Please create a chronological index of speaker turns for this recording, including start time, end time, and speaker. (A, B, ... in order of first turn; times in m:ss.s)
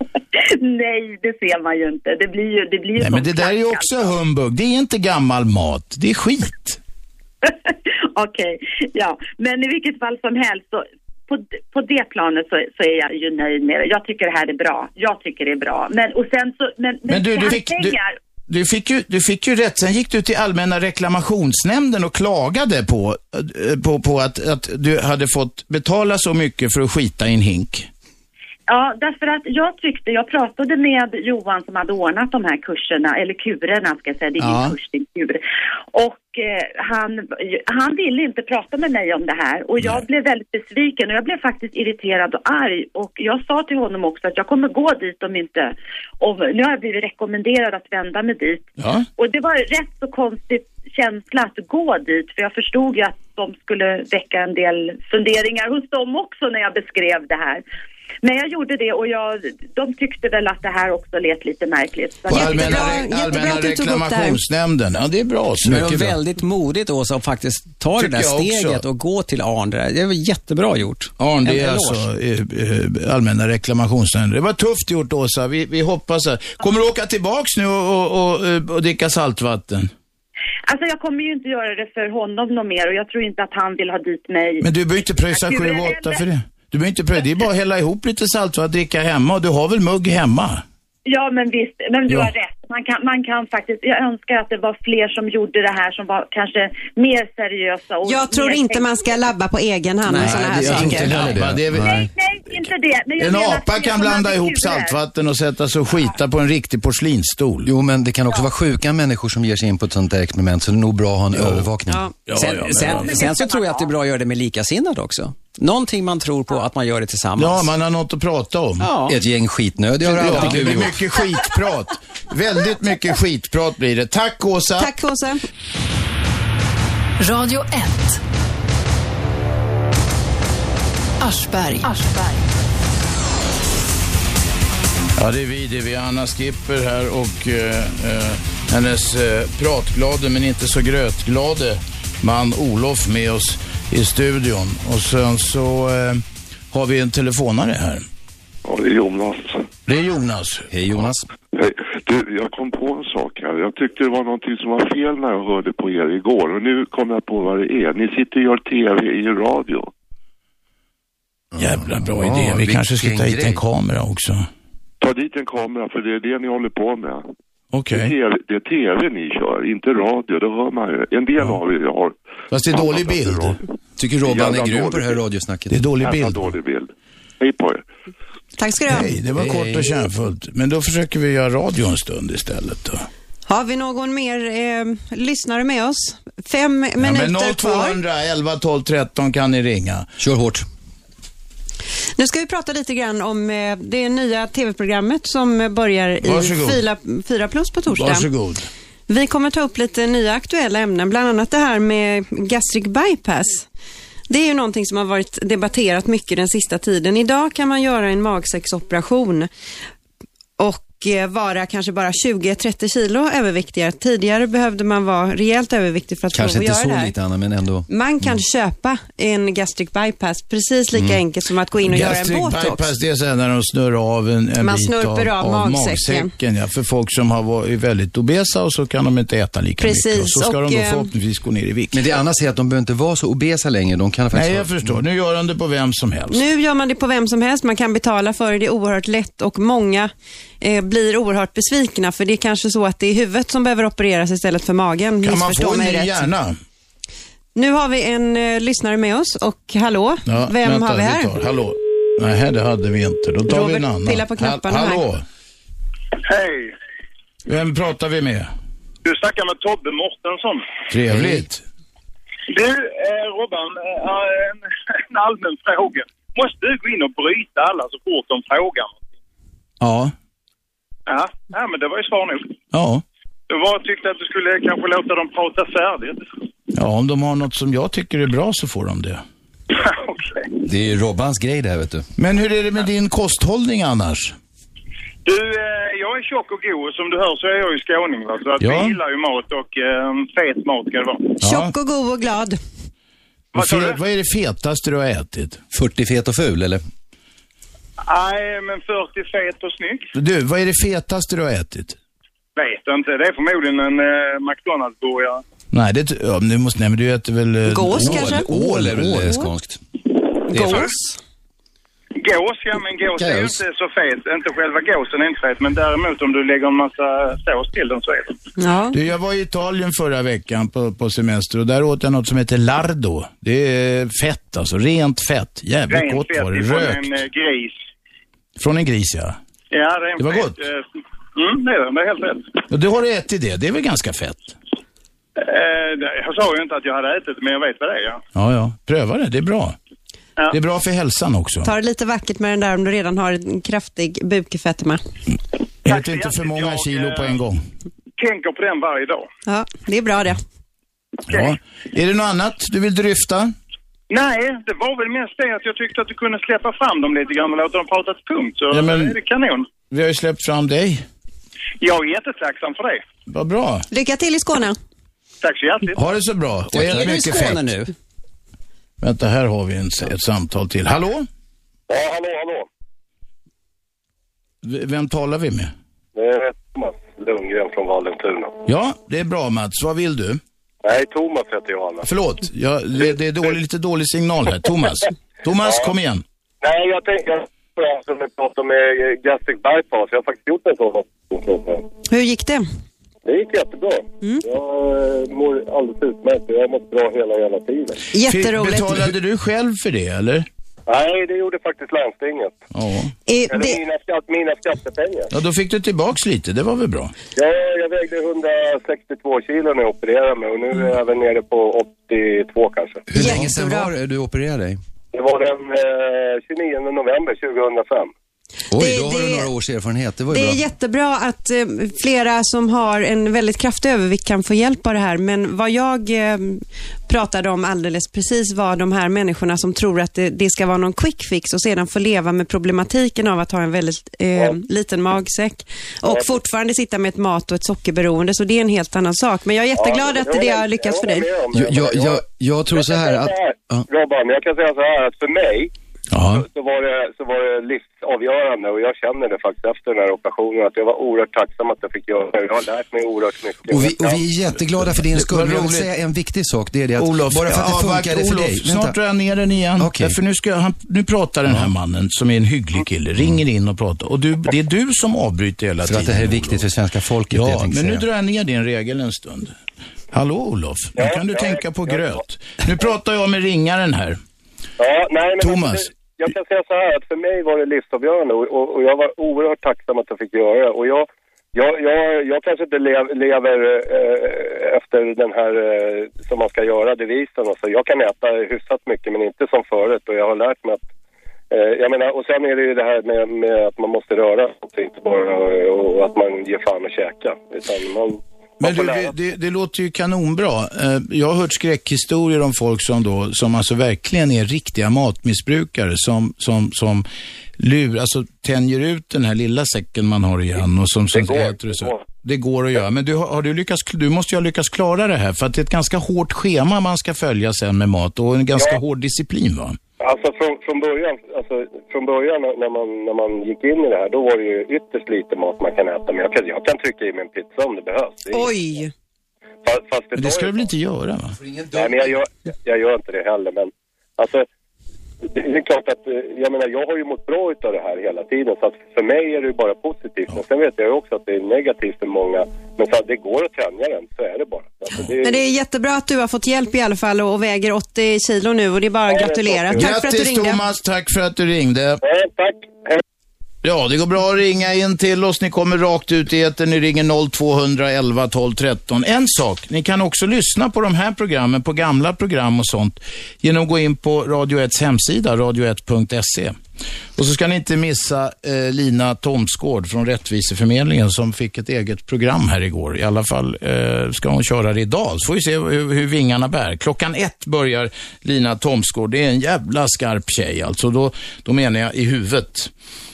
0:00.3-0:04.1 A
0:03.0-0:06.8 B
0:07.4-0:18.2 A
0:17.1-0:18.0 B
0:18.5-0:27.9 B
0:28.7-0:35.4 A
0:34.4-0:34.8 B
0:35.9-0:57.6 A
0:39.8-0:40.0 B
0:48.8-0:49.1 B
0:58.2-1:03.1 A
1:02.3-1:04.4 C
1:02.3-1:06.2 B
1:05.6-1:12.1 D
1:08.0-1:08.8 B
1:11.2-1:19.9 B
1:20.7-1:24.7 A
1:24.6-1:30.6 B
1:25.3-1:26.2 A
1:31.0-1:39.1 A
1:38.0-1:41.4 C
1:40.1-1:41.4 D
1:40.2-1:42.1 E
1:40.4-1:42.6 B
1:41.7-1:45.0 A
1:43.2-1:47.7 B
1:47.6-1:52.0 E
1:51.3-1:51.7 B
1:52.3-1:53.2 B
1:52.3-1:57.7 D
1:53.2-1:53.8 A
1:57.4-1:58.9 B
1:58.8-1:59.2 D
1:59.1-2:01.0 E
2:00.0-2:04.9 B
2:00.1-2:00.9 D
2:04.8-2:05.4 C
2:07.2-2:08.2 F
2:11.2-2:12.5 F
2:15.2-2:28.0 B
2:28.6-2:29.7 G
2:29.9-2:30.7 B
2:30.7-2:31.3 E
2:31.5-2:39.9 G
2:41.5-2:43.6 E
2:41.6-2:44.5 B
2:45.0-2:47.3 G
2:47.7-2:48.2 B
2:47.9-2:52.2 G
2:52.5-2:53.6 B
2:52.7-2:53.6 G
2:54.0-2:55.8 E
2:54.2-2:55.2 G
2:55.7-2:56.6 B
2:56.0-2:57.8 G
2:58.6-2:59.1 C
2:58.9-3:03.1 B
2:59.4-2:59.9 E
3:03.5-3:08.0 C
3:07.0-3:10.1 B
3:10.2-3:10.6 E
3:12.2-3:18.3 C
3:16.2-3:16.8 B
3:17.9-3:18.7 B
3:19.1-3:23.7 C
3:24.3-3:29.5 C
3:30.6-3:37.1 C
3:36.3-3:38.4 E
3:37.9-3:42.9 C
3:41.8-3:52.1 B
3:44.6-3:46.3 C
3:49.8-3:51.1 C
3:51.9-3:55.0 E
3:54.3-3:56.4 B
3:56.3-4:06.3 C
4:05.2-4:06.6 B
4:07.6-4:11.3 C
4:10.3-4:15.2 B
4:13.5-4:15.1 C
4:16.2-4:16.8 H
4:17.5-4:18.5 B
4:19.0-4:20.7 H
4:20.9-4:21.6 B
4:22.5-4:29.0 H
4:29.8-4:30.1 B
4:31.1-4:32.5 H
4:32.7-4:33.0 B
4:33.5-4:36.3 H
4:36.7-4:39.2 B
4:39.7-4:40.5 H
4:40.6-4:42.1 E
4:42.2-4:44.4 B
4:45.2-4:51.4 H
4:48.6-4:49.0 B
4:51.4-4:51.7 B
4:51.4-4:52.6 C
4:53.5-4:54.0 H
4:53.5-4:55.6 B
4:55.7-4:56.8 E
4:58.0-5:00.1 H
5:00.2-5:02.0 B
5:02.6-5:05.4 H
5:05.7-5:09.4 B
5:07.7-5:08.5 C
5:07.9-5:09.8 E
5:09.2-5:09.5 C
5:10.5-5:10.9 E
5:10.5-5:11.2 C
5:12.2-5:18.4 H
5:13.2-5:13.6 E
5:18.6-5:19.0 C
5:18.9-5:27.1 B
5:25.9-5:27.8 H
5:28.6-5:29.4 B
5:29.7-5:32.6 H
5:30.2-5:30.6 B
5:32.7-5:34.5 B
5:35.4-5:38.2 H
5:38.4-5:39.8 B
5:40.5-5:41.7 B
5:41.6-5:45.0 C
5:45.9-5:47.4 H
5:45.9-5:47.6 B
5:48.2-5:49.3 H
5:49.5-5:50.4 C
5:51.3-5:51.6 H
5:51.3-5:53.6 B
5:54.1-5:59.7 H
5:58.7-5:59.2 B
5:59.9-6:01.0 B
6:01.8-6:03.0 H
6:03.3-6:03.9 B
6:03.9-6:04.8 C
6:05.4-6:06.0 H
6:06.0-6:07.7 B
6:06.7-6:07.9 D
6:09.0-6:11.3 B
6:11.9-6:12.7 I
6:14.6-6:15.7 B
6:16.2-6:18.6 I
6:18.7-6:20.4 B
6:20.8-6:22.1 I
6:22.0-6:26.2 B
6:25.6-6:25.9 I
6:26.6-6:31.9 I
6:32.1-6:32.6 C
6:33.2-6:38.0 I
6:38.1-6:39.1 C
6:38.2-6:40.5 B
6:40.9-6:42.6 I
6:42.7-6:43.1 B
6:43.3-6:43.8 C
6:43.5-6:45.3 I
6:45.3-6:47.1 B
6:47.4-6:53.1 I
6:53.1-6:54.8 E
6:53.2-6:53.9 C
6:55.1-6:58.1 I
6:58.7-7:00.6 E
6:58.8-6:59.5 C
7:00.3-7:21.3 C
7:16.1-7:16.3 I
7:19.8-7:25.7 I
7:21.5-7:23.9 E
7:26.1-7:26.5 B
7:26.3-7:34.2 I
7:33.7-7:39.0 E
7:35.0-7:35.9 B
7:37.0-7:46.7 B
7:39.8-7:40.2 E
7:45.8-7:48.0 E
7:47.3-7:49.6 B
7:50.1-7:54.2 B
7:51.0-7:52.2 I
7:54.8-8:10.8 I
7:55.4-7:55.9 B
8:11.5-8:19.1 I
8:18.6-8:27.1 B
8:27.6-8:39.8 B
8:31.1-8:32.1 I
8:40.0-8:48.6 I
8:48.3-8:48.9 C
8:49.6-8:50.7 I
8:50.2-8:51.4 B
8:51.4-8:52.1 E
8:51.7-8:54.5 I
8:55.2-9:05.4 I
9:05.2-9:10.6 C
9:09.1-9:09.9 I
9:09.8-9:12.0 B
9:12.0-9:13.0 I
9:13.6-9:26.6 B
9:27.2-9:42.7 B